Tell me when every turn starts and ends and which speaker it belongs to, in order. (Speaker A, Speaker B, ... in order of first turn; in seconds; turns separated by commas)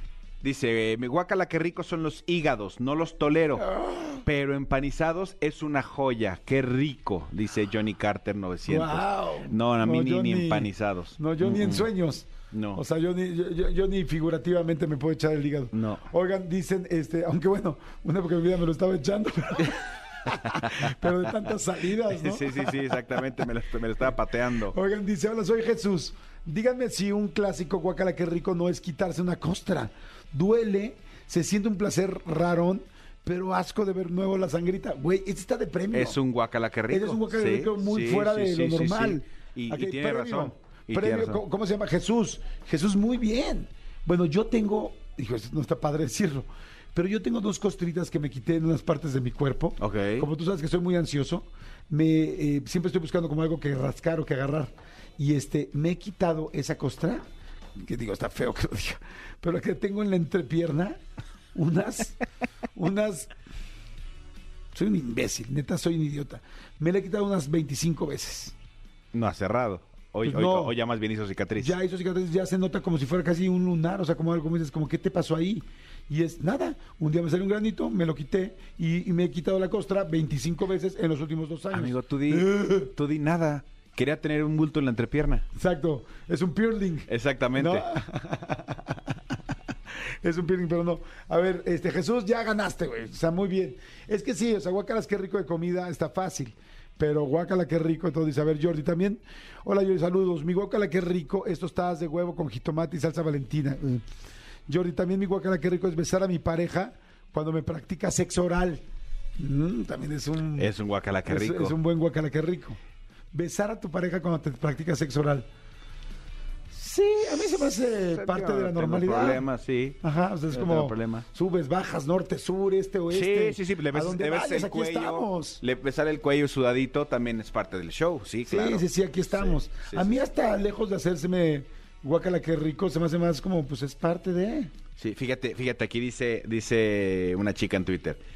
Speaker A: 0.4-3.7, Speaker B: 3.6-4.2, Speaker A: 4.2-11.9, Speaker B: 8.7-23.5, Speaker A: 12.5-12.8, Speaker A: 15.7-16.1, Speaker A: 20.4-20.9, Speaker A: 22.1-24.8, Speaker B: 24.7-36.2, Speaker A: 35.9-41.4, Speaker B: 36.9-57.2, Speaker A: 49.8-50.3, Speaker B: 57.8-61.0, Speaker B: 61.5-62.1, Speaker B: 62.8-63.3, Speaker B: 64.7-68.5, Speaker A: 69.1-71.8, Speaker B: 70.2-70.8, Speaker B: 71.6-82.9, Speaker A: 81.7-85.4, Speaker B: 85.5-89.4, Speaker A: 87.1-87.8, Speaker B: 90.2-104.0, Speaker B: 104.7-108.8, Speaker B: 109.4-110.7, Speaker A: 110.6-111.8, Speaker B: 111.3-112.8, Speaker B: 113.3-115.5, Speaker A: 116.8-120.0, Speaker B: 117.1-119.4, Speaker B: 120.0-125.6, Speaker A: 120.5-121.2, Speaker A: 123.1-130.1, Speaker B: 128.5-134.7, Speaker A: 135.0-138.2